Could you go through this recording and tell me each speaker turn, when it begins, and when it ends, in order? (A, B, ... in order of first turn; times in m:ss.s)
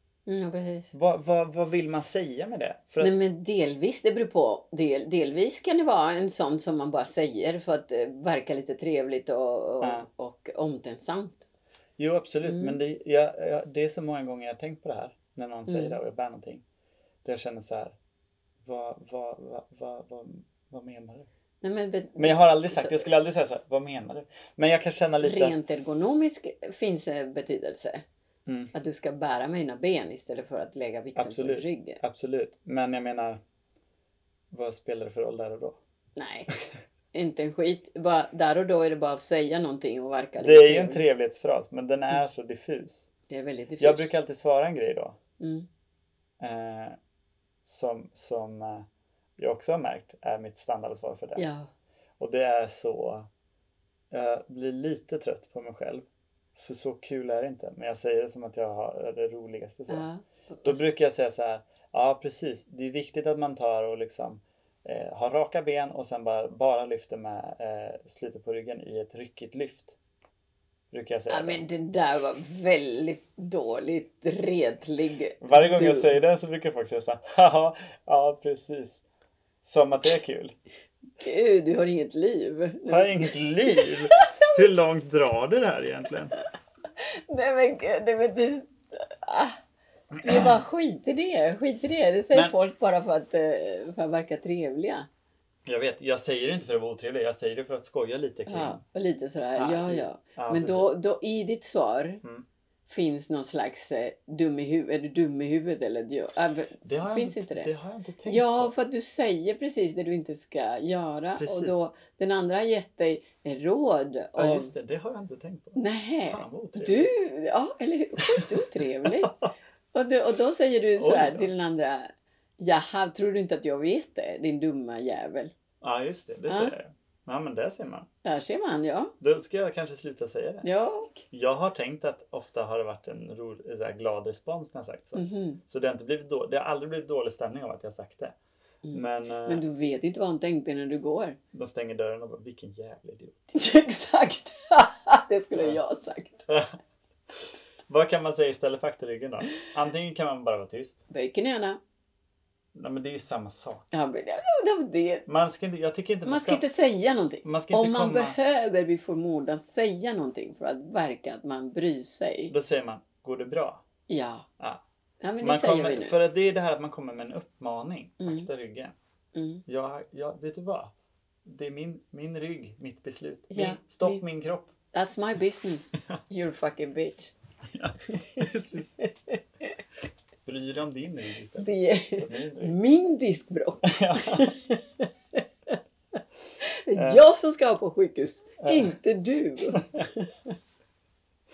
0:00.3-0:00.9 A
0:00.9-0:03.1 B
0:03.0-0:11.4 A
0:09.8-0:10.1 B
0:12.0-0:16.6 B
0:12.4-0:12.8 A
0:15.7-0:16.0 A
0:17.2-0:18.0 B
0:18.6-0:21.3 B
0:21.6-0:23.1 A
0:22.2-0:25.6 B
0:25.2-0:28.0 A
0:28.5-0:28.7 B
0:28.7-0:32.0 A
0:31.2-0:33.4 B
0:34.5-0:35.8 B
0:36.2-0:36.5 A
0:37.1-0:41.0 A
0:40.4-0:43.1 B
0:43.3-0:44.1 A
0:43.8-0:45.2 B
0:45.4-0:45.7 A
0:46.4-0:47.0 B
0:47.6-0:48.9 B
0:49.4-0:51.5 B
0:51.4-0:51.7 A
0:52.2-0:53.3 B
0:54.1-0:56.0 B
0:56.6-1:00.1 B
0:59.9-1:00.8 A
1:00.6-1:10.0 B
1:10.9-1:11.6 B
1:11.3-1:16.2 A
1:15.4-1:19.0 B
1:19.6-1:20.6 B
1:21.2-1:24.5 A
1:22.9-1:26.3 B
1:27.0-1:29.6 A
1:30.1-1:30.6 B
1:30.2-1:35.1 A
1:35.7-1:38.8 B
1:38.5-1:42.2 A
1:39.6-1:40.9 B
1:42.9-1:47.7 A
1:46.8-1:48.7 B
1:48.2-1:54.7 A
1:51.4-1:51.8 B
1:54.4-1:57.1 B
1:55.8-1:59.4 A
1:59.0-1:59.5 B
1:59.9-2:05.5 A
2:01.0-2:01.5 B
2:05.8-2:08.1 B
2:06.5-2:06.8 A
2:08.2-2:09.1 A
2:09.2-2:10.7 B
2:10.6-2:11.2 A
2:11.3-2:18.4 B
2:15.1-2:15.6 A
2:18.8-2:21.4 A
2:18.9-2:19.6 B
2:21.5-2:23.5 B
2:23.5-2:26.5 A
2:27.3-2:31.0 B
2:31.1-2:31.8 A
2:32.7-2:33.9 B
2:33.9-2:35.2 A
2:35.3-2:36.6 B
2:36.2-2:42.5 A
2:37.4-2:38.4 B
2:42.5-2:43.8 B
2:44.1-2:44.5 A
2:45.2-2:46.1 A
2:45.4-2:49.0 B
2:48.2-2:48.5 A
2:49.4-2:49.6 A
2:49.7-2:50.9 B
2:51.4-2:54.7 B
2:53.5-2:54.2 A
2:54.9-2:57.3 A
2:57.7-2:58.9 B
2:58.1-2:59.8 A
3:00.4-3:02.8 B
3:01.6-3:05.8 A
3:03.8-3:04.5 B
3:06.6-3:10.3 A
3:07.0-3:07.2 B
3:08.6-3:09.0 B
3:09.7-3:10.0 B